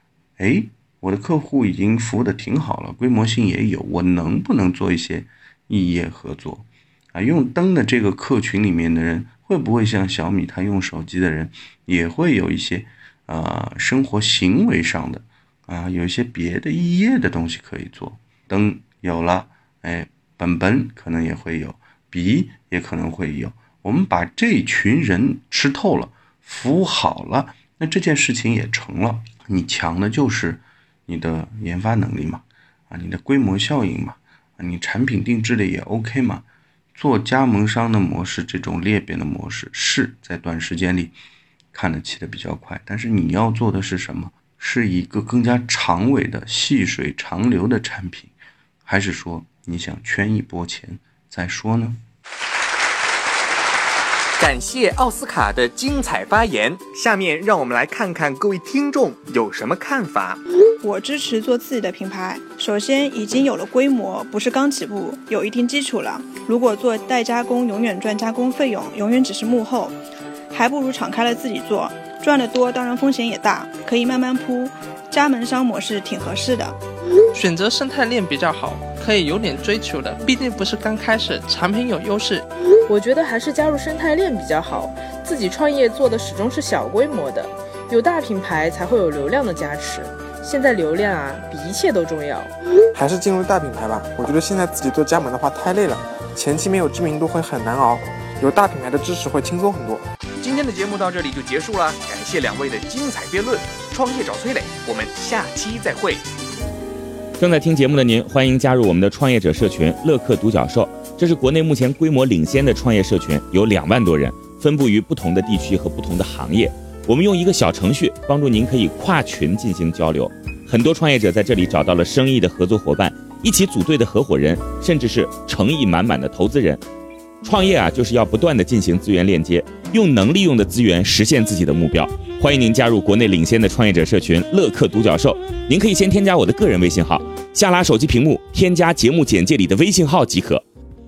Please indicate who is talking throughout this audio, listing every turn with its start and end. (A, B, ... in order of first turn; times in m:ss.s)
0:00.4-0:41.2 A
0:41.7-0:48.3 A
0:48.8-0:52.0 A
0:54.4-1:00.4 B
1:00.8-1:10.0 C
1:10.5-1:16.8 C
1:17.3-1:22.4 D
1:22.9-1:32.5 E
1:32.9-1:40.0 F
1:40.4-1:46.2 B
1:47.4-2:06.8 G
2:07.4-2:20.6 G